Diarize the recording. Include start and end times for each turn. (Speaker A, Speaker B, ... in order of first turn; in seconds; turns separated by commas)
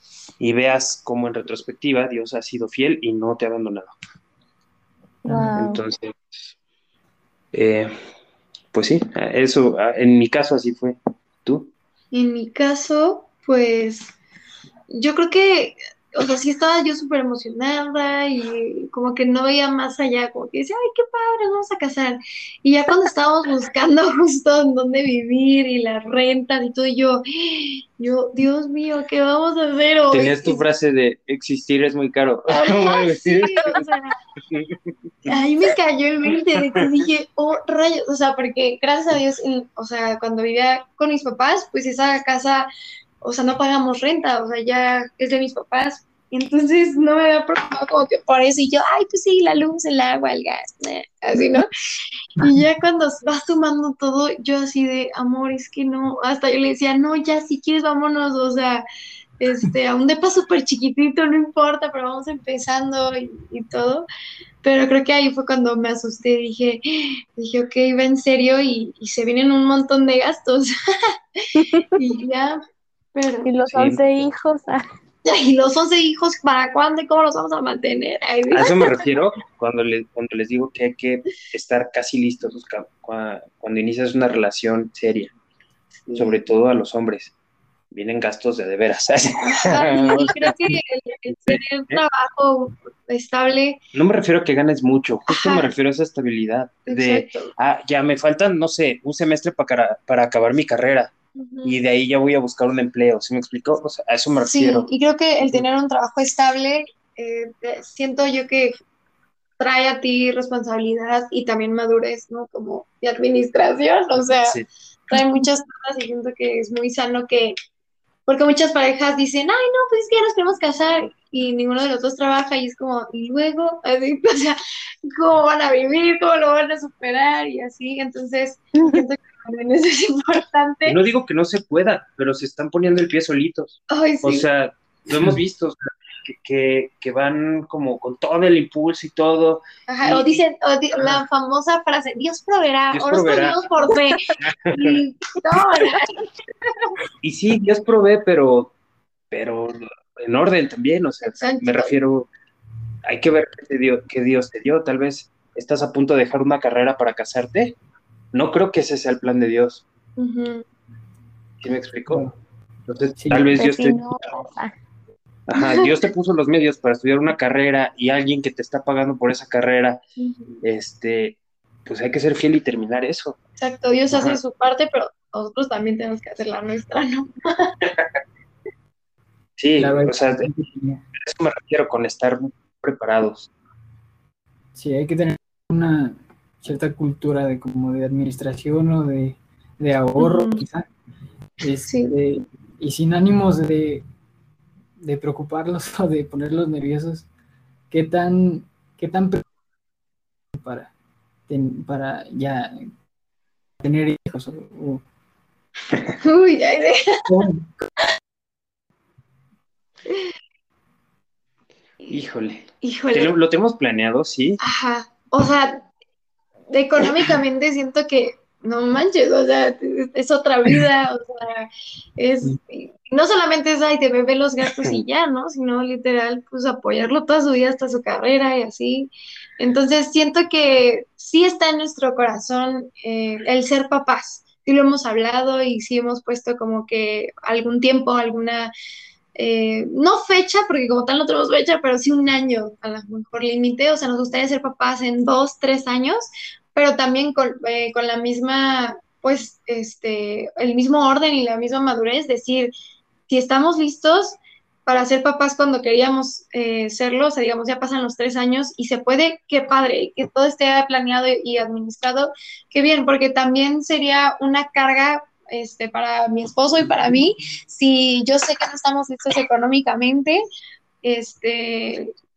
Speaker A: 0.4-3.9, Speaker B: 5.2-5.8, Speaker A: 5.5-6.5, Speaker A: 7.5-7.9, Speaker A: 8.7-11.7, Speaker C: 12.1-14.2, Speaker C: 14.9-30.6, Speaker A: 30.1-33.9, Speaker C: 32.5-34.2, Speaker A: 34.5-34.8, Speaker C: 35.3-42.7, Speaker C: 43.2-51.7, Speaker C: 52.4-58.9, Speaker C: 59.4-64.1, Speaker C: 64.6-70.7, Speaker C: 71.9-72.6, Speaker C: 73.1-73.5, Speaker B: 73.5-74.8, Speaker A: 73.7-74.1, Speaker C: 75.3-78.7, Speaker A: 78.5-85.3, Speaker C: 86.1-86.4, Speaker A: 86.2-87.3, Speaker A: 87.9-90.6, Speaker C: 89.4-93.8, Speaker A: 91.3-92.0, Speaker A: 93.9-101.1, Speaker C: 95.3-95.7, Speaker C: 96.9-97.5, Speaker C: 101.4-101.8, Speaker A: 101.6-104.9, Speaker C: 104.5-108.8, Speaker C: 109.6-114.6, Speaker A: 114.2-114.7, Speaker C: 115.1-117.5, Speaker C: 118.3-131.0, Speaker A: 130.8-140.4, Speaker C: 133.9-134.5, Speaker C: 139.9-146.1, Speaker A: 142.9-143.6, Speaker A: 144.4-145.0, Speaker A: 147.2-148.7, Speaker A: 149.3-152.3, Speaker C: 151.2-152.0, Speaker A: 153.1-157.8, Speaker A: 158.3-159.8, Speaker C: 160.2-160.7, Speaker A: 161.6-162.3, Speaker D: 162.1-162.3, Speaker A: 162.9-164.4, Speaker D: 163.2-163.6, Speaker B: 163.6-164.7, Speaker A: 165.5-170.0, Speaker C: 165.6-165.8, Speaker C: 170.2-170.6, Speaker A: 170.6-173.4, Speaker C: 173.6-177.7, Speaker A: 174.1-174.4, Speaker A: 179.6-180.5, Speaker D: 179.8-181.0, Speaker A: 181.2-183.5, Speaker D: 184.7-190.9, Speaker C: 190.2-190.6, Speaker D: 191.6-194.1, Speaker C: 191.8-192.1, Speaker D: 195.0-197.3, Speaker D: 197.9-199.4, Speaker D: 200.6-200.9, Speaker D: 201.5-202.8, Speaker D: 203.8-205.0, Speaker C: 206.2-207.2, Speaker D: 207.3-207.9, Speaker A: 212.1-214.6, Speaker C: 212.8-213.3, Speaker C: 214.6-215.9, Speaker C: 216.7-238.7, Speaker C: 239.3-252.7, Speaker C: 253.3-270.4, Speaker C: 271.0-272.1